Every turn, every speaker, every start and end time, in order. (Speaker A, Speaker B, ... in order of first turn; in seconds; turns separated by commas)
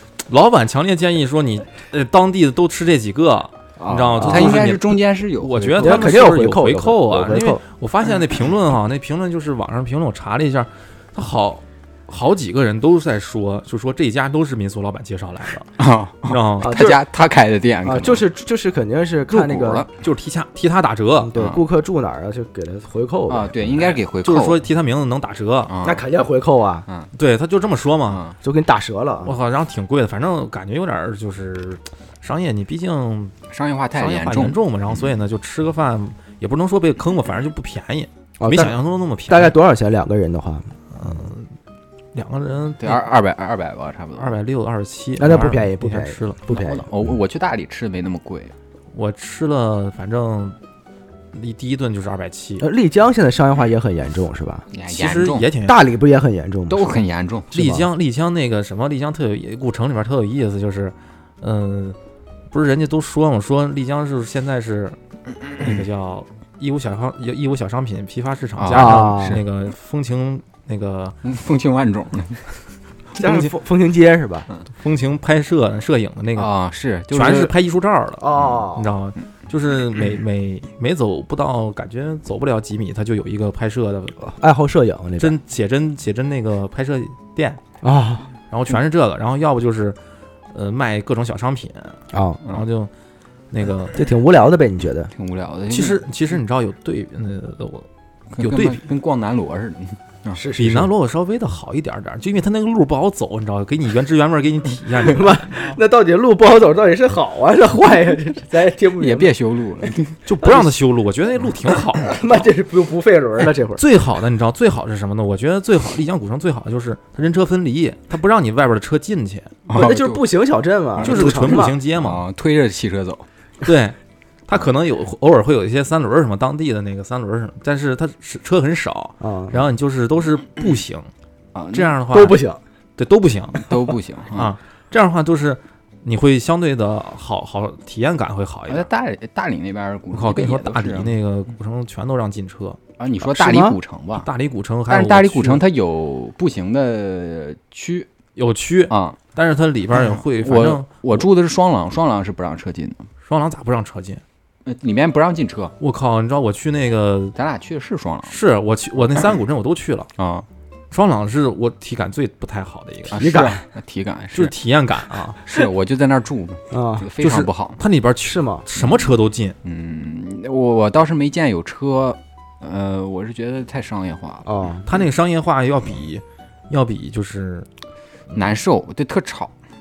Speaker A: 0.3-15.7, Speaker B: 3.8-6.2, Speaker C: 4.2-4.8, Speaker C: 5.8-7.6, Speaker B: 15.8-18.2, Speaker A: 16.2-16.8, Speaker C: 16.6-17.0, Speaker C: 17.8-19.9, Speaker B: 19.3-19.9, Speaker A: 19.9-21.3, Speaker C: 21.2-23.6, Speaker B: 21.3-21.6, Speaker B: 23.3-24.6, Speaker A: 23.7-25.7, Speaker B: 25.7-26.0, Speaker C: 25.8-26.9, Speaker A: 27.1-28.2, Speaker B: 28.1-28.3, Speaker C: 28.4-29.3, Speaker A: 29.2-33.3, Speaker B: 33.5-35.0, Speaker A: 33.9-39.5, Speaker C: 38.4-38.8, Speaker C: 39.3-40.7, Speaker A: 40.9-41.5, Speaker A: 42.1-43.0, Speaker B: 42.8-44.3, Speaker A: 44.2-46.4, Speaker C: 45.2-46.9, Speaker B: 46.5-48.5, Speaker A: 48.9-50.6, Speaker A: 51.3-52.6, Speaker C: 52.6-54.6, Speaker B: 54.7-55.5, Speaker A: 54.9-55.9, Speaker C: 55.6-57.0, Speaker B: 56.7-57.5, Speaker C: 57.5-57.9, Speaker A: 57.5-62.0, Speaker A: 62.5-65.0, Speaker A: 65.5-71.2, Speaker B: 68.6-69.4, Speaker C: 68.7-69.4, Speaker B: 71.2-72.4, Speaker C: 73.1-74.5, Speaker A: 74.8-76.5, Speaker B: 76.3-77.5, Speaker A: 77.1-84.2, Speaker C: 78.2-78.9, Speaker C: 84.2-85.4, Speaker A: 85.2-87.6, Speaker C: 87.8-88.3, Speaker A: 88.5-90.0, Speaker A: 90.5-92.9, Speaker C: 92.1-92.4, Speaker A: 93.5-94.0, Speaker C: 93.9-95.1, Speaker B: 95.1-96.0, Speaker A: 95.7-97.9, Speaker B: 98.3-100.4, Speaker A: 98.4-98.8, Speaker C: 100.3-100.9, Speaker A: 100.5-105.6, Speaker C: 105.0-109.3, Speaker B: 109.0-110.2, Speaker A: 110.2-112.2, Speaker C: 110.4-110.7, Speaker C: 112.1-113.8, Speaker A: 113.8-119.6, Speaker B: 119.7-120.2, Speaker C: 119.7-121.8, Speaker B: 121.0-123.2, Speaker A: 121.0-122.2, Speaker A: 123.6-124.0, Speaker A: 124.5-131.1, Speaker C: 129.2-129.6, Speaker B: 131.5-131.9, Speaker A: 131.7-132.4, Speaker C: 132.1-132.6, Speaker A: 133.0-133.7, Speaker B: 133.6-134.5, Speaker A: 134.3-138.9, Speaker B: 138.7-141.1, Speaker A: 140.1-142.8, Speaker B: 143.0-144.3, Speaker C: 143.2-143.8, Speaker A: 144.2-145.6, Speaker B: 144.9-148.1, Speaker A: 148.3-151.2, Speaker B: 148.9-149.2, Speaker B: 149.9-153.1, Speaker A: 153.2-154.2, Speaker B: 154.6-155.7, Speaker A: 155.8-157.3, Speaker B: 157.3-158.4, Speaker A: 158.3-160.1, Speaker B: 160.2-160.5, Speaker A: 160.9-163.2, Speaker B: 163.1-164.6, Speaker C: 163.1-163.6, Speaker A: 164.3-165.5, Speaker B: 165.4-167.8, Speaker C: 166.7-167.1, Speaker A: 167.2-169.6, Speaker C: 168.2-168.7, Speaker B: 168.7-174.5, Speaker C: 174.4-174.9, Speaker A: 174.9-177.7, Speaker B: 178.3-179.5